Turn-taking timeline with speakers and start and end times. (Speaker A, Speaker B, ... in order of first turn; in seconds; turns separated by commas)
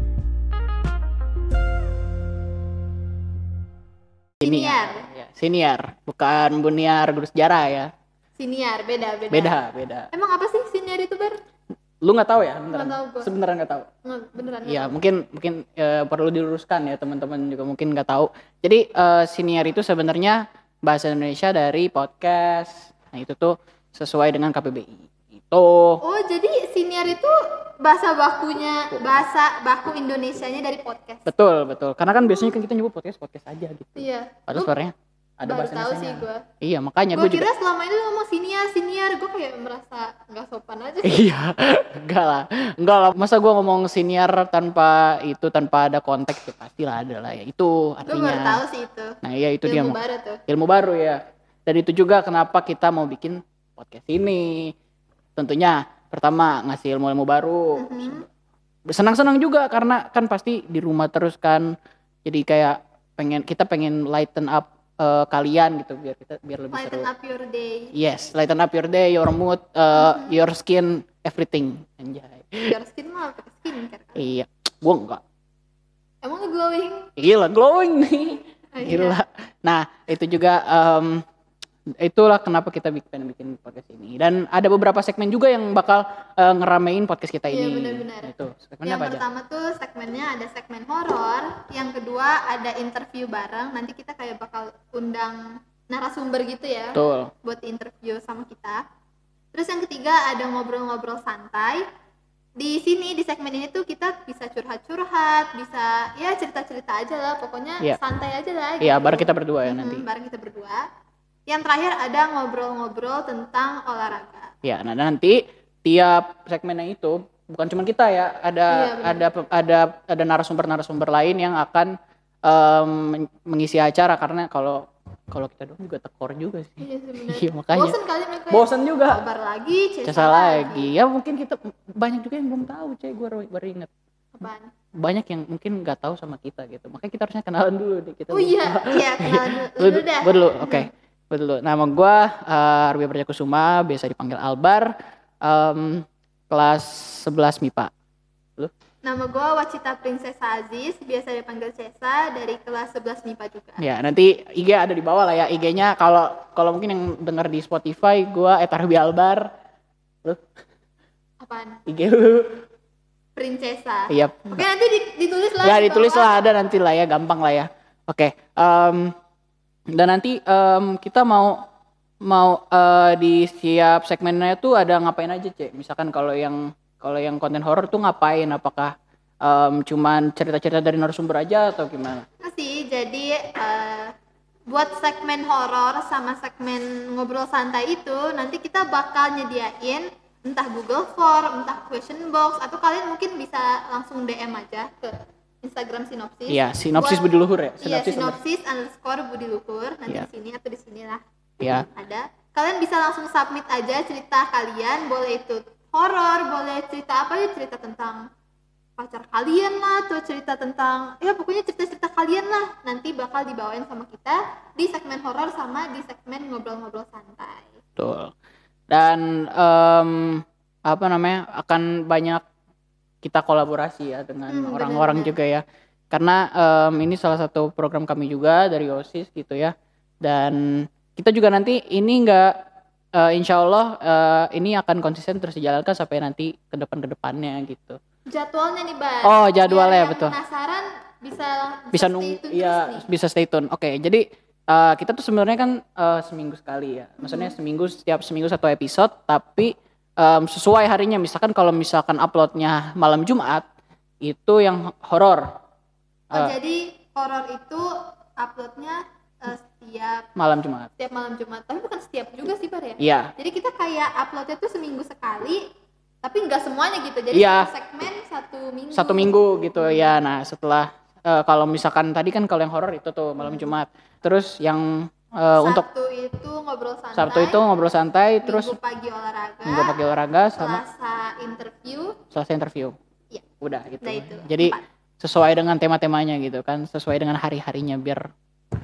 Speaker A: 4.4-5.1, Speaker B: 4.4-7.9, Speaker A: 8.4-9.6, Speaker B: 9.3-10.1, Speaker A: 10.1-11.4, Speaker B: 12.0-13.9, Speaker A: 12.7-13.3, Speaker A: 14.1-14.9, Speaker B: 14.7-26.0, Speaker A: 26.0-31.3, Speaker B: 31.3-37.5, Speaker A: 34.0-34.7, Speaker A: 35.5-36.4, Speaker A: 37.1-41.2, Speaker B: 41.0-48.6, Speaker A: 48.1-50.4, Speaker B: 49.2-54.8, Speaker B: 55.4-58.2, Speaker A: 57.8-58.2, Speaker B: 58.9-61.7, Speaker B: 62.2-67.1, Speaker A: 66.7-67.9, Speaker B: 68.0-72.8, Speaker A: 69.9-70.4, Speaker A: 72.7-74.3, Speaker B: 74.2-75.2, Speaker A: 76.2-77.1, Speaker B: 77.2-81.2, Speaker A: 78.7-79.2, Speaker B: 82.0-89.2, Speaker A: 87.5-88.3, Speaker A: 88.8-98.8, Speaker B: 97.0-97.3, Speaker A: 99.5-101.9, Speaker A: 102.6-110.9, Speaker B: 108.8-110.0, Speaker A: 111.5-114.5, Speaker B: 114.6-128.0, Speaker A: 118.7-119.2, Speaker A: 126.8-130.9, Speaker B: 128.5-129.2, Speaker B: 130.1-133.9, Speaker A: 134.3-134.7, Speaker B: 134.9-147.9, Speaker A: 138.3-140.9, Speaker A: 149.0-153.8, Speaker B: 153.8-159.5, Speaker A: 161.4-161.8, Speaker B: 161.9-162.6, Speaker A: 163.4-166.4, Speaker B: 164.1-164.7, Speaker B: 165.6-169.1, Speaker B: 169.9-171.6, Speaker B: 172.2-182.3, Speaker A: 182.4-184.1, Speaker A: 184.7-201.2, Speaker B: 196.5-198.4, Speaker B: 201.6-201.9, Speaker A: 201.9-208.2, Speaker A: 209.0-217.8, Speaker B: 218.0-218.3, Speaker B: 218.9-222.4, Speaker B: 223.2-232.5, Speaker A: 224.5-225.4, Speaker B: 233.2-238.0, Speaker A: 238.3-243.1, Speaker B: 239.2-240.4, Speaker B: 241.9-253.7, Speaker A: 247.2-247.5, Speaker B: 254.2-255.4, Speaker B: 256.3-256.6, Speaker A: 256.3-260.3, Speaker B: 260.4-260.9, Speaker A: 261.0-265.6, Speaker B: 263.0-263.3, Speaker A: 266.2-270.2, Speaker B: 267.3-267.7, Speaker B: 268.9-275.9, Speaker A: 273.4-273.7, Speaker A: 275.6-277.6, Speaker B: 277.1-278.8, Speaker A: 278.4-280.0, Speaker B: 279.6-280.8, Speaker A: 280.6-282.2, Speaker B: 282.3-282.9, Speaker B: 283.6-288.2, Speaker A: 284.0-284.8